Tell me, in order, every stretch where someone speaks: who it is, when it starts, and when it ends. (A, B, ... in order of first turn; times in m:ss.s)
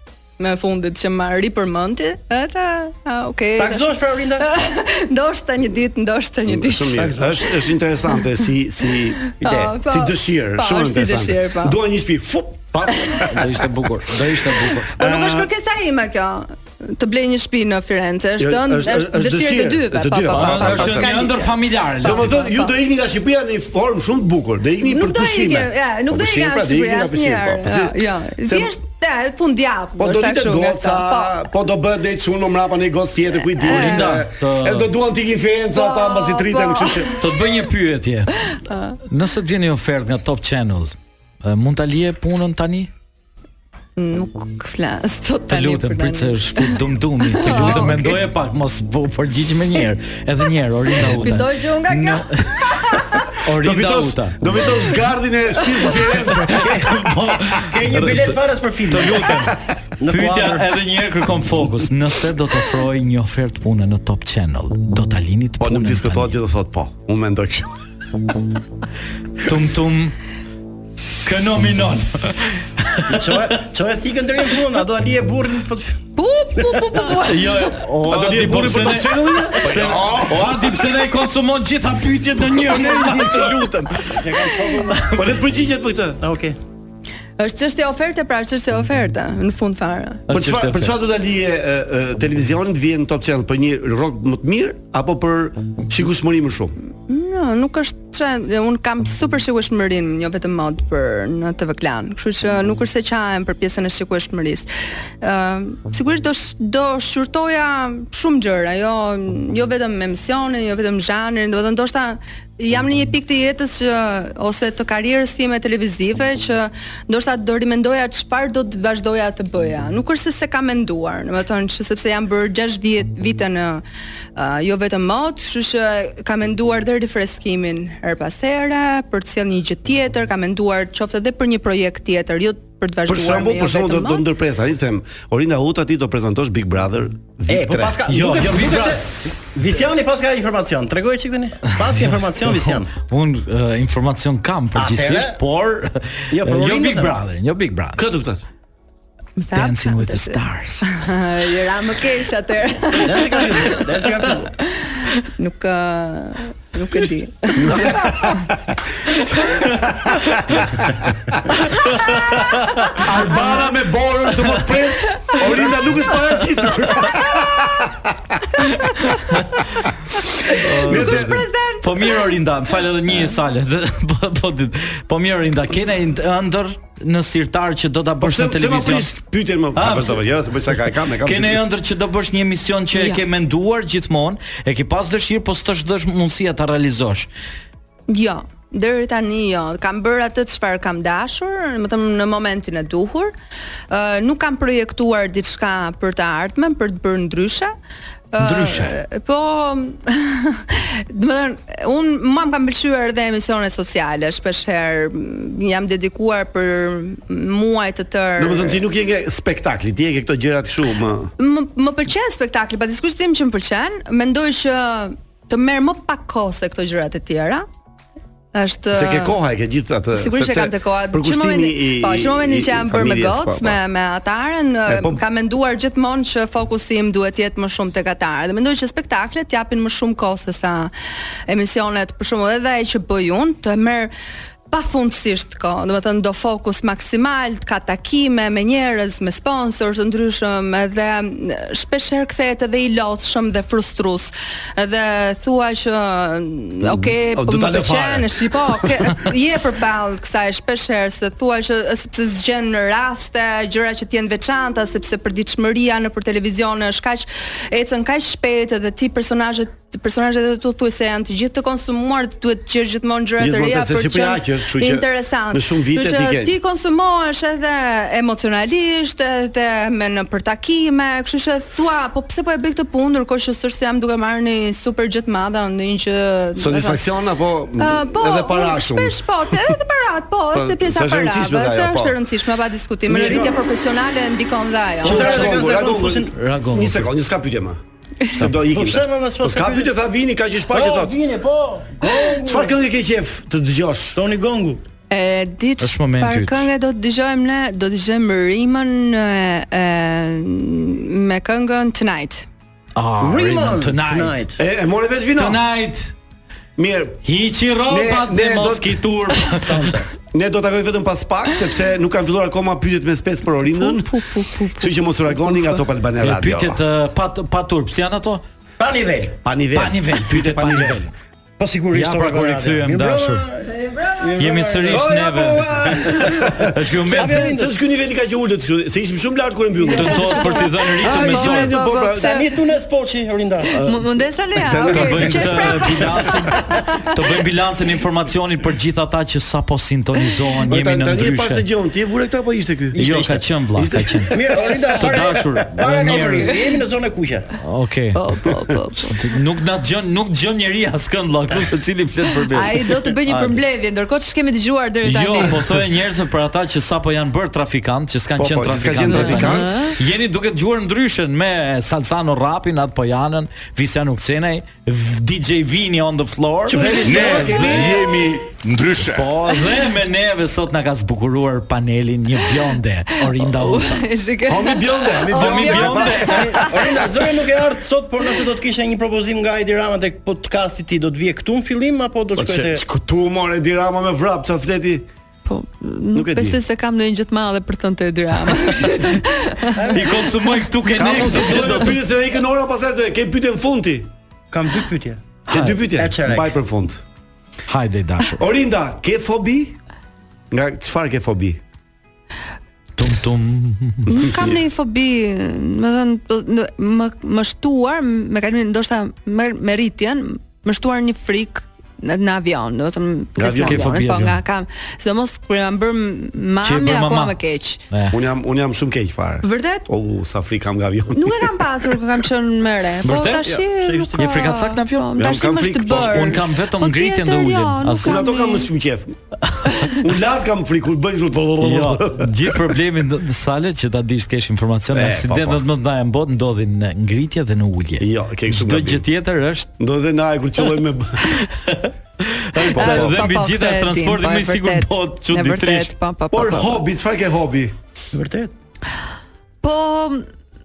0:00.4-0:03.8 A
0:03.6-0:04.5 B
0:04.4-0:07.1 A
0:06.4-0:13.4 C
0:06.9-0:07.4 B
0:09.2-0:11.8 A
0:09.4-0:09.8 B
0:12.7-0:14.9 D
0:14.9-0:22.8 A
0:15.0-0:15.4 C
0:18.4-0:21.3 C
0:20.3-0:22.4 D
0:22.0-0:28.7 C
0:24.8-0:31.4 A
0:30.0-0:37.1 C
0:33.6-0:34.1 A
0:33.6-0:34.9 D
0:35.7-0:37.3 A
0:37.2-0:38.4 D
0:38.5-0:39.0 A
0:39.0-0:42.9 D
0:44.0-0:48.2 A
0:45.5-0:54.9 D
0:47.5-0:47.8 C
0:50.9-0:53.2 A
0:53.4-0:56.8 C
0:55.6-0:55.9 A
0:56.2-0:58.3 D
0:56.5-1:00.7 B
0:58.9-0:59.5 D
1:00.1-1:06.4 D
1:05.6-1:07.7 C
1:09.4-1:10.2 D
1:11.2-1:13.2 D
1:13.1-1:16.0 B
1:16.2-1:17.8 A
1:16.6-1:17.0 B
1:17.2-1:25.2 D
1:18.0-1:20.5 C
1:22.4-1:23.5 C
1:24.0-1:25.2 B
1:25.1-1:26.2 C
1:26.2-1:26.6 B
1:27.4-1:30.2 A
1:30.3-1:31.0 D
1:30.3-1:36.8 C
1:37.1-1:44.7 A
1:45.2-2:03.8 A
2:04.4-2:14.2 A
2:13.0-2:18.0 C
2:17.5-2:22.9 B
2:18.1-2:19.0 D
2:21.8-2:28.0 D
2:24.8-2:25.4 B
2:26.3-2:27.2 B
2:28.0-2:28.4 C
2:29.4-2:33.8 A
2:29.5-2:30.9 D
2:33.0-2:34.5 B
2:34.6-2:38.4 A
2:37.6-2:38.4 C
2:39.6-2:40.7 D
2:39.9-2:40.5 C
2:41.6-2:43.0 D
2:43.0-2:48.1 C
2:47.3-2:47.6 A
2:50.5-2:52.3 A
2:50.6-2:59.1 D
2:50.8-2:51.4 C
2:58.2-3:01.6 C
2:59.7-3:00.2 D
3:01.2-3:07.3 D
3:02.9-3:03.2 A
3:08.1-3:13.3 A
3:13.9-3:17.7 A
3:18.3-3:28.8 A
3:18.4-3:19.0 D
3:28.4-3:31.3 C
3:31.4-3:37.6 A
3:38.5-3:39.4 A
3:38.9-3:43.8 C
3:40.1-3:50.9 A
3:44.9-3:45.2 C
3:51.5-3:54.1 A
3:54.7-4:37.0 A
4:06.8-4:09.1 C
4:23.4-4:26.5 C
4:36.6-4:39.8 C
4:37.8-4:45.5 A
4:40.5-4:42.2 C
4:43.0-4:43.6 C
4:43.1-4:43.6 B
4:45.0-4:46.3 B
4:45.0-4:51.2 C
4:46.3-4:47.1 D
4:48.4-4:49.9 B
4:50.7-4:52.7 B
4:52.4-4:54.2 C
4:54.1-4:54.8 B
4:55.1-5:02.5 A
4:55.8-4:56.7 D
5:03.0-5:04.4 D
5:03.2-5:04.6 B
5:04.6-5:05.6 C
5:05.4-5:06.1 D
5:06.8-5:07.2 C
5:07.2-5:09.9 D
5:07.9-5:09.0 C
5:09.5-5:10.1 B
5:10.3-5:16.8 C
5:13.6-5:15.8 A
5:16.2-5:18.4 D
5:18.8-5:19.4 B
5:19.4-5:21.0 C
5:19.7-5:21.1 D
5:21.6-5:25.2 B
5:21.9-5:23.4 D
5:23.9-5:24.2 A
5:24.4-5:27.5 D
5:24.9-5:32.3 C
5:26.1-5:27.7 B
5:29.9-5:31.8 D
5:30.2-5:32.5 A
5:32.2-5:33.7 B
5:33.7-5:36.4 A
5:33.7-5:34.0 D
5:34.5-5:36.4 C
5:34.6-5:41.6 D
5:40.7-5:44.7 C
5:42.9-5:46.6 D
5:44.3-5:47.5 B
5:47.6-5:48.2 D
5:48.1-5:49.3 A
5:48.9-5:53.6 D
5:52.5-5:55.7 A
5:55.0-6:07.9 D
5:58.4-5:59.8 C
5:59.2-5:59.9 A
6:06.7-6:07.6 B
6:06.7-6:08.1 C
6:07.0-6:09.3 E
6:09.1-6:14.0 D
6:13.4-6:16.8 A
6:14.4-6:17.1 C
6:15.3-6:16.7 D
6:16.2-6:22.8 B
6:22.4-6:25.1 C
6:25.4-6:30.0 A
6:26.1-6:26.6 C
6:29.7-6:30.2 B
6:29.9-6:32.0 D
6:30.9-6:34.1 C
6:34.5-6:36.6 B
6:35.5-6:37.0 C
6:37.7-6:38.4 D
6:38.4-6:39.8 C
6:40.5-6:41.6 C
6:43.0-6:44.2 D
6:44.1-6:57.8 A
6:44.2-6:44.6 C
6:53.4-6:53.9 C
6:53.6-6:54.4 D
6:56.6-6:57.4 D
6:57.9-6:58.2 D
6:58.1-7:01.6 C
6:59.4-6:59.9 A
7:01.1-7:08.7 A
7:03.0-7:03.6 D
7:03.8-7:04.4 B
7:04.2-7:05.1 D
7:05.2-7:06.5 C
7:05.9-7:08.2 D
7:08.0-7:09.2 C
7:09.9-7:12.6 C
7:11.6-7:19.7 D
7:14.9-7:15.6 C
7:18.0-7:19.0 C
7:19.8-7:21.2 C
7:21.3-7:25.9 D
7:22.6-7:26.8 A
7:22.7-7:23.2 C
7:26.3-7:27.8 C
7:28.1-7:28.5 B
7:29.6-7:30.2 A